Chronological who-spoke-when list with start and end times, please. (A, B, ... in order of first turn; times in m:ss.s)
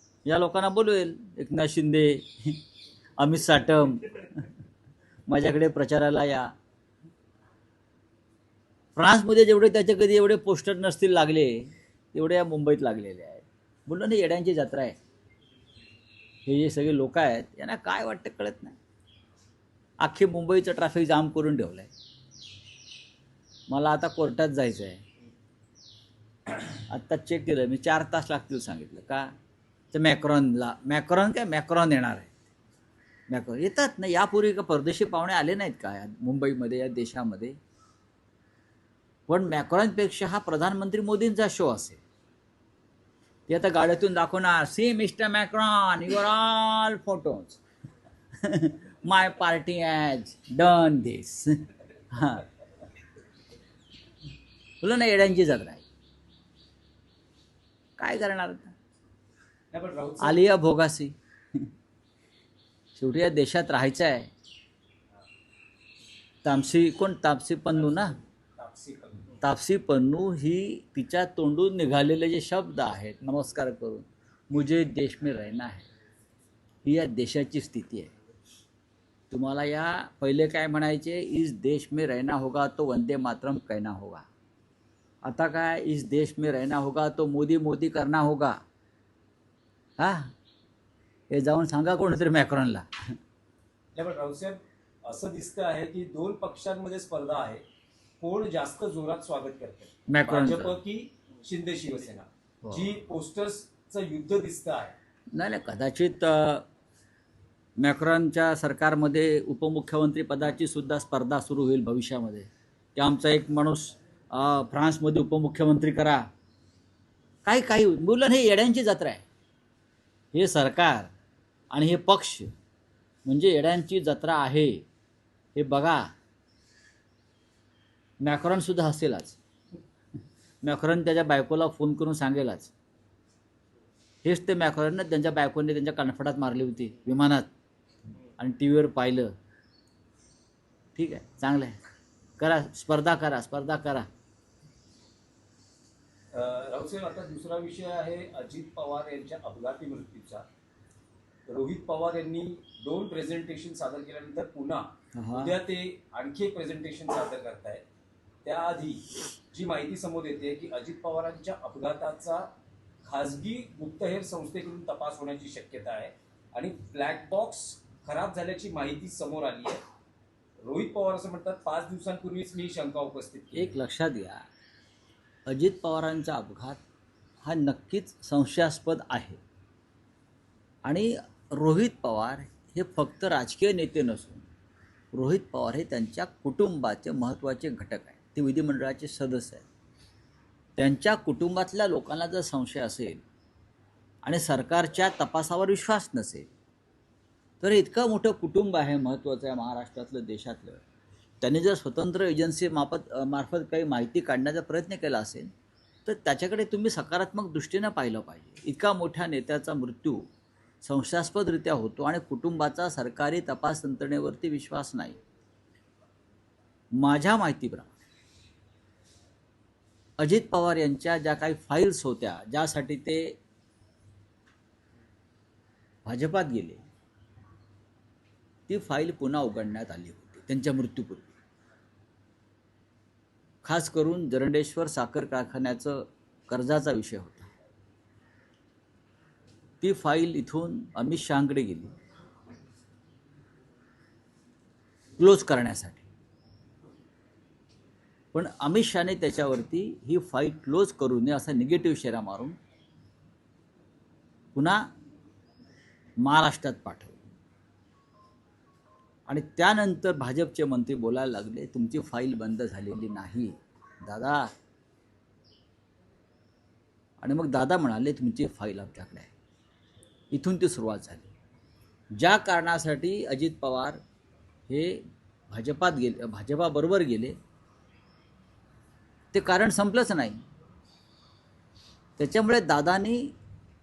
0:00.2-0:02.6 A
0:03.2-0:04.5 A
0:05.3-0:06.5 A
0:09.0-0:15.0 A
0:16.5-0:18.8 A
0:20.0-0:21.9 A
0:23.7-0:25.0 A
0:26.7-0:29.3 A
0:29.9-0:32.3 A
0:33.3-0:37.6 A
0:39.3-0:42.0 A
0:43.5-0:47.6 A
0:48.4-0:51.6 A
0:52.1-0:52.4 A
0:54.8-0:55.8 A
0:58.0-0:58.7 A
0:59.7-1:00.4 B
1:00.2-1:01.1 A
1:03.0-1:04.3 A
1:06.4-1:08.2 A
1:08.6-1:09.4 B
1:09.4-1:15.9 A
1:16.8-1:18.1 A
1:19.3-1:24.2 A
1:25.2-1:28.6 A
1:30.0-1:30.3 A
1:31.3-1:32.9 A
1:33.9-1:37.6 B
1:38.2-1:44.9 B
1:40.1-1:40.8 A
1:45.3-1:46.7 A
1:47.8-1:56.3 A
1:57.4-1:59.2 A
2:00.3-2:01.1 A
2:01.7-2:02.5 A
2:03.2-2:04.8 A
2:05.6-2:06.1 A
2:08.2-2:09.4 A
2:10.6-2:12.7 A
2:14.2-2:17.5 A
2:18.4-2:19.3 A
2:21.0-2:21.8 A
2:22.4-2:24.1 A
2:26.3-2:30.4 B
2:31.5-2:37.8 B
2:35.1-2:35.5 A
2:38.4-2:42.5 B
2:43.0-2:49.8 B
2:50.6-2:53.7 B
2:53.5-2:54.4 A
2:55.5-2:56.8 A
2:57.4-2:59.4 A
3:00.8-3:04.5 A
3:05.1-3:09.6 A
3:10.8-3:13.2 A
3:14.2-3:16.5 A
3:17.6-3:20.8 A
3:21.4-3:25.5 A
3:26.1-3:30.3 A
3:30.8-3:35.2 A
3:37.0-3:37.9 A
3:40.2-3:43.4 A
3:46.1-3:46.8 A
3:48.7-3:51.3 A
3:53.6-3:57.5 A
3:59.8-4:01.9 A
4:05.2-4:06.1 A
4:08.3-4:12.5 A
4:14.6-4:14.9 A
4:16.2-4:17.2 A
4:19.3-4:23.5 A
4:24.0-4:24.5 A
4:27.2-4:29.3 A
4:30.3-4:31.3 A
4:32.2-4:34.0 A
4:34.7-4:37.3 A
4:39.3-4:40.4 A
4:42.2-4:43.3 A